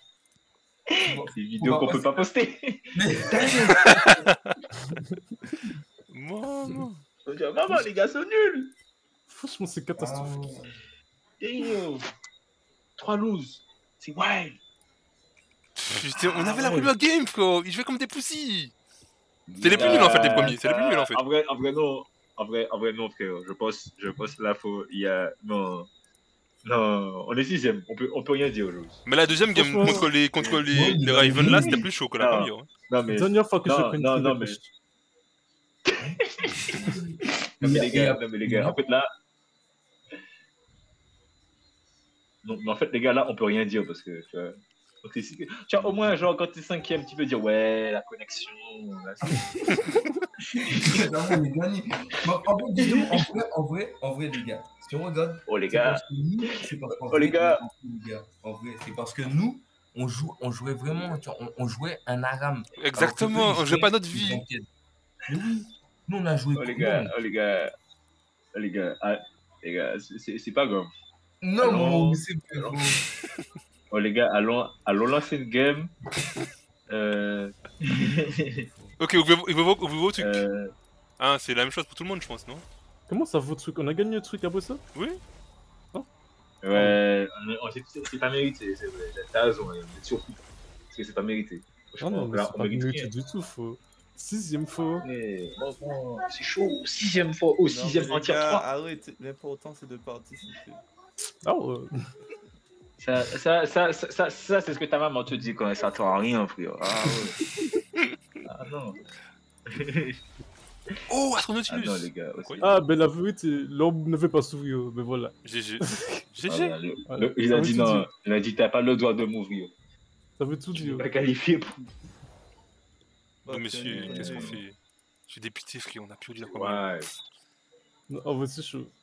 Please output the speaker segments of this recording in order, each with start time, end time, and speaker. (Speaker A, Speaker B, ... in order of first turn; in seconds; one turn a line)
Speaker A: 0.9-4.3
Speaker B: 1.1-2.2
Speaker B: 3.0-3.6
Speaker C: 3.8-4.4
Speaker C: 6.1-7.0
Speaker A: 7.3-8.7
Speaker D: 9.3-10.5
Speaker B: 10.0-10.8
Speaker A: 11.4-12.1
Speaker A: 13.0-14.6
Speaker C: 15.8-18.7
Speaker A: 16.1-16.9
Speaker B: 19.5-20.6
Speaker C: 19.6-21.2
Speaker A: 19.7-25.9
Speaker A: 26.6-29.0
Speaker C: 29.1-32.7
Speaker D: 29.5-30.1
Speaker B: 30.7-31.9
Speaker A: 32.2-34.6
Speaker D: 33.1-34.7
Speaker A: 35.9-37.0
Speaker B: 36.7-38.8
Speaker A: 37.6-39.0
Speaker A: 42.4-49.6
Speaker B: 45.8-46.1
Speaker B: 50.5-64.7
Speaker A: 50.7-51.0
Speaker A: 52.7-53.3
Speaker A: 55.5-56.5
Speaker A: 57.1-57.6
Speaker C: 62.8-64.4
Speaker B: 65.3-67.1
Speaker A: 66.6-67.7
Speaker A: 68.5-70.9
Speaker B: 71.4-73.0
Speaker A: 71.6-72.8
Speaker A: 73.9-75.9
Speaker A: 76.9-78.7
Speaker C: 79.0-80.5
Speaker A: 80.2-80.7
Speaker C: 81.2-82.6
Speaker D: 83.1-84.8
Speaker C: 85.0-85.2
Speaker A: 86.6-90.4
Speaker D: 86.7-87.0
Speaker A: 90.9-93.1
Speaker D: 92.0-95.0
Speaker A: 95.0-98.6
Speaker E: 97.7-100.9
Speaker D: 101.4-102.0
Speaker A: 103.0-107.3
Speaker A: 108.5-109.0
Speaker A: 109.7-110.2
Speaker C: 111.1-112.8
Speaker A: 111.7-112.8
Speaker D: 112.6-116.1
Speaker C: 115.4-116.8
Speaker A: 116.5-119.7
Speaker D: 117.1-118.1
Speaker D: 120.4-121.1
Speaker A: 120.7-121.9
Speaker E: 123.4-124.6
Speaker C: 123.5-124.8
Speaker A: 123.9-124.6
Speaker C: 125.3-126.9
Speaker A: 126.5-127.1
Speaker D: 128.1-128.9